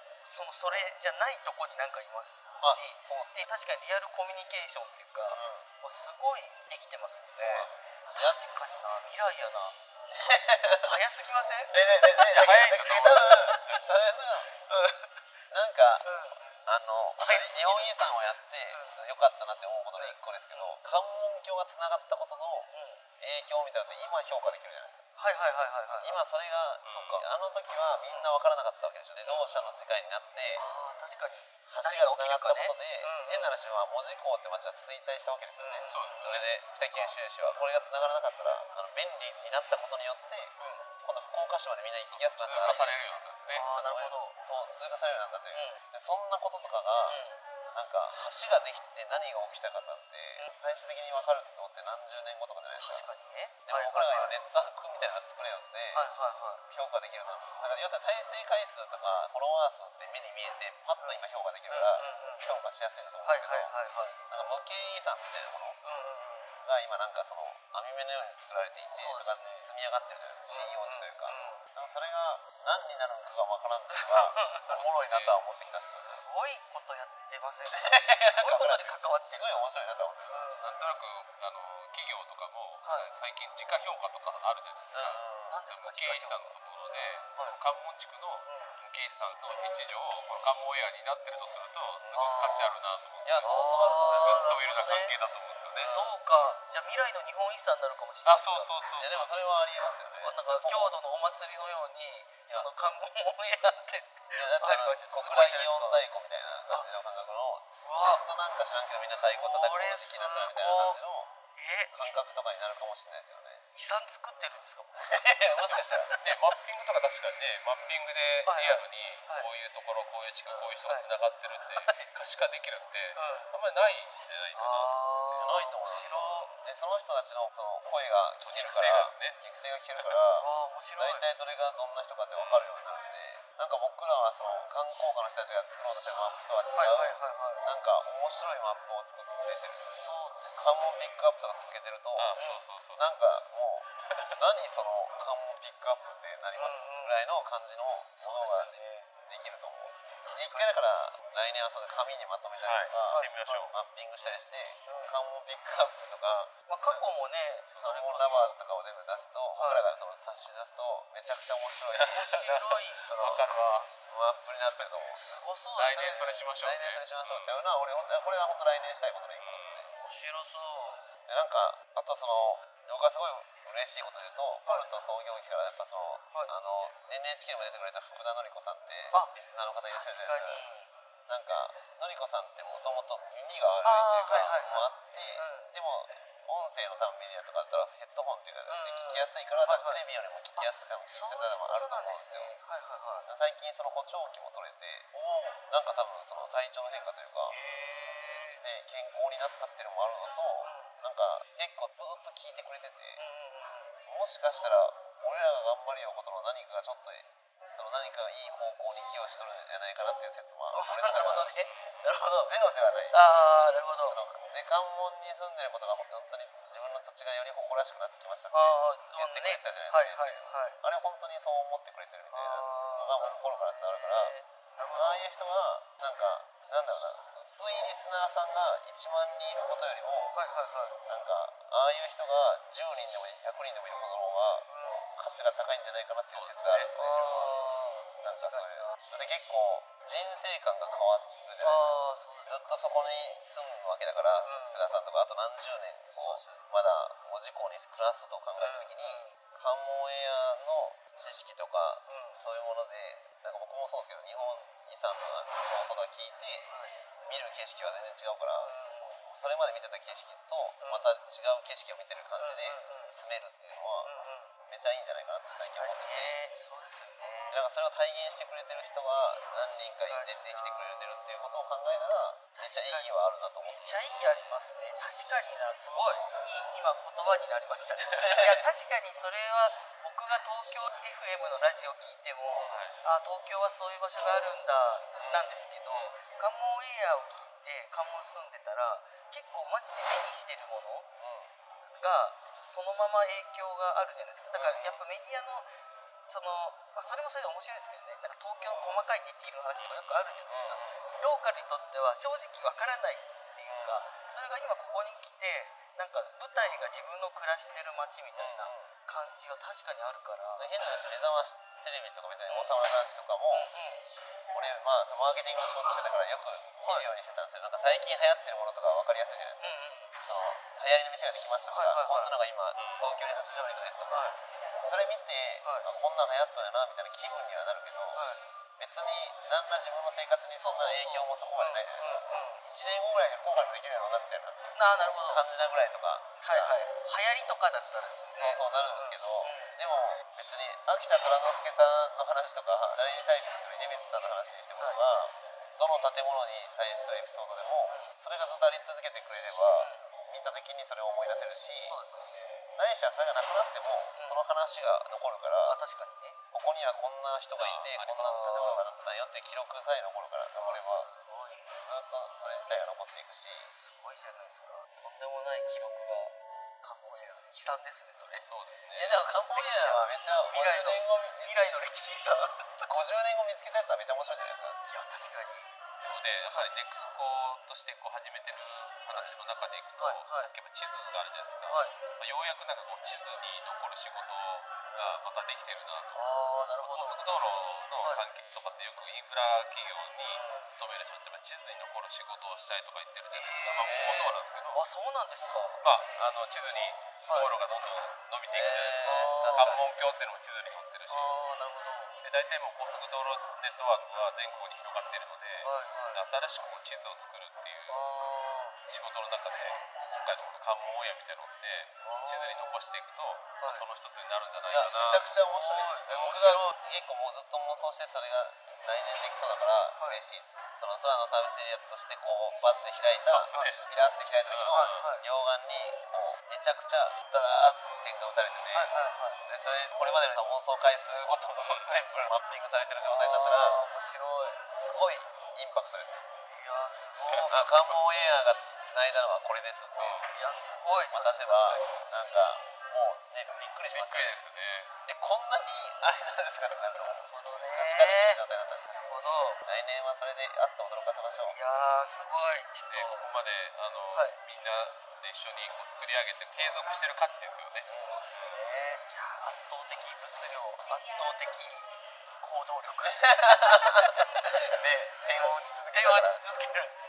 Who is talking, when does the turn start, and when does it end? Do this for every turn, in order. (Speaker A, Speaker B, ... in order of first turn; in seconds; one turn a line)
Speaker A: 0.2-9.8
Speaker B: 2.6-3.5
Speaker B: 5.3-5.7
Speaker B: 7.3-8.4
Speaker B: 10.1-10.9
Speaker A: 10.8-13.8
Speaker B: 11.7-14.5
Speaker C: 12.2-13.9
Speaker A: 14.7-15.2
Speaker B: 15.5-22.7
Speaker A: 16.0-16.5
Speaker A: 17.2-18.0
Speaker A: 18.7-19.0
Speaker A: 19.9-20.8
Speaker A: 22.7-23.1
Speaker B: 23.2-25.1
Speaker A: 25.2-26.2
Speaker B: 26.0-30.6
Speaker C: 26.9-27.2
Speaker A: 26.9-27.2
Speaker A: 30.6-33.5
Speaker B: 31.7-47.2
Speaker A: 35.6-37.1
Speaker C: 35.9-36.5
Speaker A: 40.6-40.9
Speaker C: 42.1-43.7
Speaker A: 42.6-44.4
Speaker A: 45.5-45.8
Speaker A: 47.1-47.4
Speaker B: 47.7-53.1
Speaker A: 52.8-54.4
Speaker B: 53.6-56.1
Speaker A: 56.0-56.6
Speaker B: 56.6-63.7
Speaker A: 61.0-62.5
Speaker A: 63.2-64.2
Speaker B: 64.3-65.8
Speaker A: 65.8-66.6
Speaker B: 66.6-76.2
Speaker A: 68.9-69.7
Speaker A: 70.5-71.7
Speaker A: 73.9-74.7
Speaker C: 74.5-75.4
Speaker A: 76.2-79.6
Speaker B: 77.7-80.5
Speaker C: 78.5-78.8
Speaker A: 80.3-80.7
Speaker C: 80.6-93.3
Speaker B: 84.9-85.6
Speaker A: 85.5-86.6
Speaker A: 88.5-88.8
Speaker A: 92.1-92.7
Speaker B: 93.2-95.0
Speaker A: 93.4-95.2
Speaker C: 94.2-96.0
Speaker A: 95.8-98.7
Speaker B: 95.8-96.1
Speaker C: 98.2-99.5
Speaker B: 99.0-100.9
Speaker A: 100.2-106.0
Speaker B: 104.4-111.3
Speaker A: 107.8-108.2
Speaker A: 109.1-111.0
Speaker A: 111.6-112.2
Speaker B: 111.9-113.6
Speaker A: 113.7-116.2
Speaker B: 115.1-116.1
Speaker C: 116.2-125.7
Speaker A: 118.5-119.5
Speaker A: 120.8-122.1
Speaker A: 123.2-123.5
Speaker A: 124.5-126.5
Speaker B: 125.4-142.4
Speaker C: 128.4-129.4
Speaker A: 130.4-131.3
Speaker C: 132.4-132.7
Speaker A: 136.7-137.6
Speaker A: 139.9-140.6
Speaker C: 142.2-143.1
Speaker A: 142.4-142.7
Speaker B: 143.0-148.7
Speaker A: 146.5-147.2
Speaker A: 148.2-149.1
Speaker B: 149.3-157.1
Speaker A: 150.2-150.8
Speaker C: 152.6-153.7
Speaker A: 153.1-153.7
Speaker A: 154.9-155.2
Speaker A: 156.7-158.6
Speaker B: 157.8-162.5
Speaker A: 159.5-159.8
Speaker C: 161.9-163.9
Speaker A: 162.2-163.1
Speaker B: 163.0-163.5
Speaker B: 164.1-169.9
Speaker A: 165.2-166.6
Speaker C: 165.8-167.6
Speaker C: 169.4-169.8
Speaker A: 169.9-171.0
Speaker B: 171.3-180.6
Speaker A: 179.9-180.9
Speaker B: 181.3-192.5
Speaker A: 183.8-185.7
Speaker A: 188.7-190.0
Speaker A: 190.6-193.3
Speaker B: 193.3-195.1
Speaker A: 195.1-195.6
Speaker B: 195.7-197.6
Speaker A: 197.5-198.6
Speaker B: 198.6-203.2
Speaker A: 200.6-200.9
Speaker A: 203.2-203.9
Speaker B: 204.1-211.5
Speaker A: 210.7-212.5
Speaker B: 212.4-213.2
Speaker A: 213.1-214.2
Speaker B: 214.0-224.3
Speaker A: 218.5-220.8
Speaker A: 222.3-225.3
Speaker B: 224.9-230.4
Speaker A: 230.3-231.0
Speaker B: 231.1-237.6
Speaker A: 234.7-235.0
Speaker C: 236.3-237.3
Speaker A: 236.8-239.0
Speaker B: 238.2-256.6
Speaker A: 241.6-242.7
Speaker A: 244.4-244.9
Speaker A: 246.1-246.6
Speaker A: 248.6-249.4
Speaker A: 252.1-252.4
Speaker A: 256.7-257.0
Speaker B: 257.2-266.4
Speaker A: 258.6-259.2
Speaker A: 260.8-261.1
Speaker A: 262.4-263.2
Speaker A: 264.0-264.6
Speaker A: 265.6-267.6
Speaker B: 267.5-274.0
Speaker A: 269.6-271.3
Speaker A: 272.6-291.1
Speaker B: 278.2-278.6
Speaker C: 282.6-283.0
Speaker B: 285.1-286.1
Speaker B: 291.2-291.5
Speaker A: 292.0-295.7
Speaker B: 294.6-295.0
Speaker A: 296.3-311.1
Speaker B: 300.5-301.2
Speaker B: 303.7-304.0
Speaker B: 308.3-308.9
Speaker B: 310.6-313.7
Speaker A: 312.5-312.8
Speaker A: 313.5-314.1
Speaker B: 314.5-324.3
Speaker A: 316.8-317.1
Speaker A: 319.6-320.2
Speaker A: 321.7-322.4
Speaker C: 322.8-323.0
Speaker A: 323.5-324.4
Speaker B: 324.8-328.2
Speaker A: 328.1-328.4
Speaker B: 328.8-336.9
Speaker A: 330.6-332.6
Speaker A: 334.8-335.4
Speaker A: 336.4-339.8
Speaker B: 338.3-352.0
Speaker A: 347.9-348.1
Speaker A: 349.8-350.0
Speaker A: 351.8-352.5
Speaker B: 352.8-355.8
Speaker A: 354.2-354.4
Speaker A: 355.6-356.4
Speaker B: 356.5-361.1
Speaker C: 357.6-358.7
Speaker A: 358.2-358.9
Speaker A: 360.6-361.7
Speaker B: 361.8-363.7
Speaker A: 363.7-368.5
Speaker C: 368.4-369.2
Speaker B: 368.9-372.1
Speaker A: 369.5-372.9
Speaker B: 372.9-374.8
Speaker A: 374.9-375.7
Speaker C: 376.0-386.2
Speaker A: 380.0-380.5
Speaker A: 381.7-382.0
Speaker B: 384.9-385.2
Speaker A: 386.1-387.3
Speaker C: 386.8-394.8
Speaker A: 388.0-388.2
Speaker A: 390.3-390.7
Speaker A: 393.3-394.1
Speaker B: 393.7-394.4
Speaker A: 394.7-395.8
Speaker C: 395.8-401.4
Speaker B: 398.5-399.9
Speaker A: 399.0-399.8
Speaker A: 401.1-402.2
Speaker C: 402.2-408.1
Speaker A: 405.6-406.2
Speaker A: 407.9-408.8
Speaker C: 408.9-415.4
Speaker A: 412.0-412.7
Speaker B: 414.7-428.9
Speaker A: 415.5-416.8
Speaker C: 416.1-416.7
Speaker C: 423.2-423.8
Speaker A: 423.5-423.8
Speaker C: 424.5-425.1
Speaker A: 424.7-425.2
Speaker A: 428.7-429.4
Speaker B: 429.5-433.8
Speaker A: 433.1-434.6
Speaker B: 434.7-436.2
Speaker A: 436.5-437.7
Speaker C: 437.3-438.0
Speaker B: 437.5-440.2
Speaker C: 440.0-440.3
Speaker A: 440.3-442.0
Speaker B: 441.1-444.4
Speaker C: 443.9-444.9
Speaker B: 445.1-448.9
Speaker A: 447.0-449.6
Speaker B: 449.6-451.6
Speaker A: 451.5-453.2
Speaker C: 452.9-457.9
Speaker A: 457.8-464.6
Speaker B: 457.9-458.3
Speaker B: 463.0-466.4
Speaker A: 465.4-467.0